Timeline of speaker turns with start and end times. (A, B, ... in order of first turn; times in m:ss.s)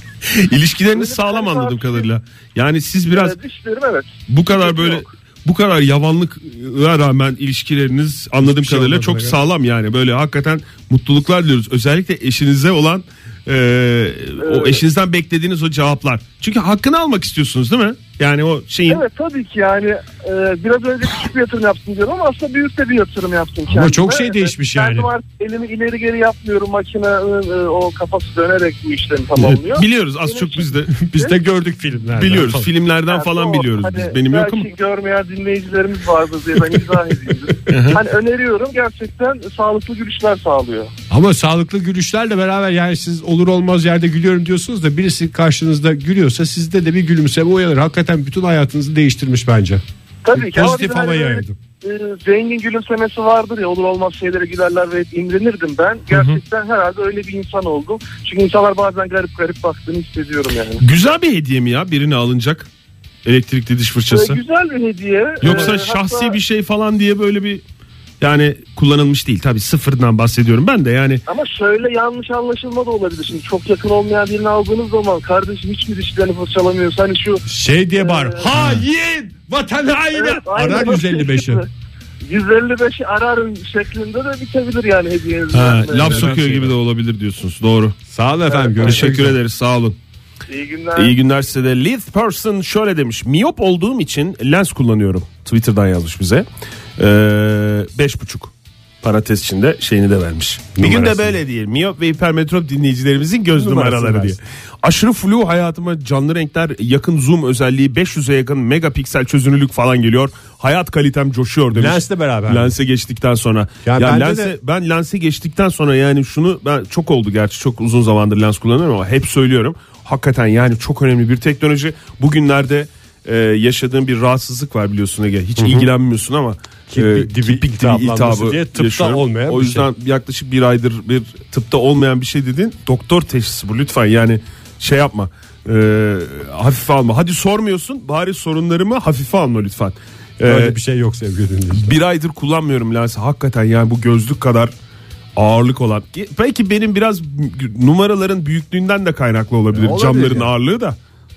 0:00.3-0:03.4 A
0:00.9-0:02.1 B
0:03.1-0:05.1 B
0:04.3-0:19.0 A
0:08.4-0:09.4 C
0:14.4-0:14.8 B
0:18.9-0:31.3 B
0:23.7-0:25.1 C
0:29.4-0:31.0 A
0:31.0-0:32.7 C
0:32.2-0:34.7 A
0:33.1-0:40.9 B
0:37.7-0:38.0 A
0:41.1-0:49.8 C
0:50.2-1:00.8 B
0:50.3-0:51.6 C
1:00.8-1:02.7 A
1:03.2-1:04.4 A
1:04.1-1:06.4 B
1:05.4-1:07.6 A
1:08.2-1:11.2 A
1:11.3-1:17.4 B
1:17.5-1:21.6 C
1:18.0-1:18.5 B
1:20.2-1:21.7 B
1:22.3-1:26.3 B
1:25.5-1:28.0 A
1:25.9-1:26.8 C
1:28.1-1:29.4 C
1:28.5-1:28.9 B
1:28.8-1:30.0 A
1:30.5-1:31.2 B
1:31.0-1:36.5 A
1:37.0-2:20.8 A
1:40.8-1:41.4 C
1:43.6-1:44.4 C
1:51.7-1:52.7 C
1:53.8-1:54.6 C
2:05.6-2:05.9 C
2:06.9-2:09.9 C
2:20.4-2:22.0 C
2:21.7-2:24.7 A
2:25.4-2:31.0 A
2:29.7-2:30.5 C